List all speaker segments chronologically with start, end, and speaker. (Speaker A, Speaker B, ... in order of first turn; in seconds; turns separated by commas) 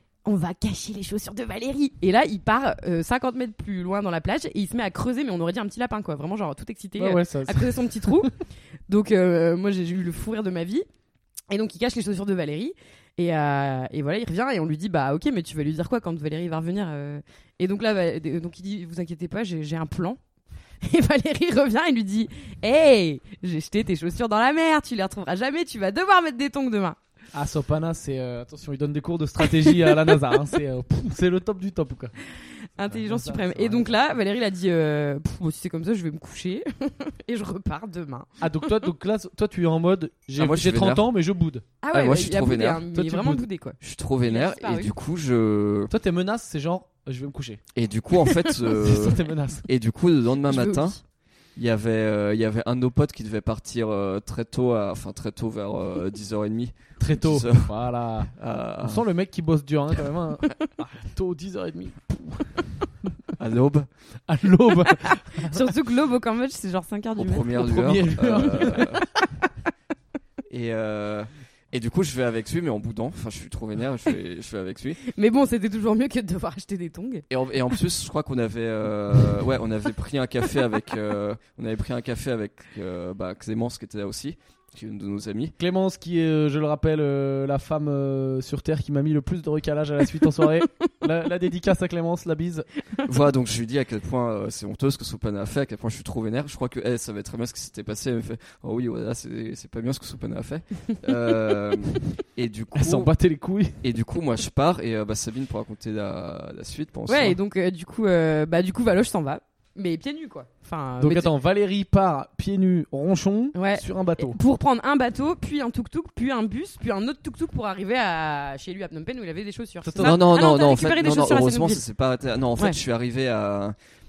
Speaker A: 0.2-8.3, Speaker B: 7.0-8.3, Speaker A: 8.9-10.8, Speaker A: 11.5-20.2, Speaker A: 20.8-27.0, Speaker B: 27.3-32.1, Speaker A: 29.5-30.2, Speaker A: 32.8-38.4, Speaker B: 32.9-33.9, Speaker B: 38.4-41.6, Speaker C: 40.4-41.1, Speaker A: 41.8-44.9, Speaker C: 41.9-42.9, Speaker B: 42.9-43.4, Speaker C: 43.8-45.9, Speaker B: 45.9-47.6, Speaker C: 47.7-51.0, Speaker B: 48.7-49.7, Speaker A: 50.4-51.0, Speaker C: 51.5-57.7, Speaker B: 57.0-62.7, Speaker C: 58.3-59.0, Speaker C: 63.4-63.9, Speaker B: 64.3-65.7, Speaker A: 65.4-68.0, Speaker C: 67.2-69.0, Speaker B: 67.6-69.0, Speaker C: 70.5-75.0, Speaker A: 75.0-77.2, Speaker C: 77.3-85.5, Speaker B: 85.6-92.7, Speaker C: 93.0-103.1, Speaker B: 102.7-103.8, Speaker C: 103.8-107.4, Speaker A: 107.1-111.3, Speaker B: 111.0-114.4, Speaker A: 113.5-121.8, Speaker B: 119.8-120.2, Speaker C: 120.0-123.7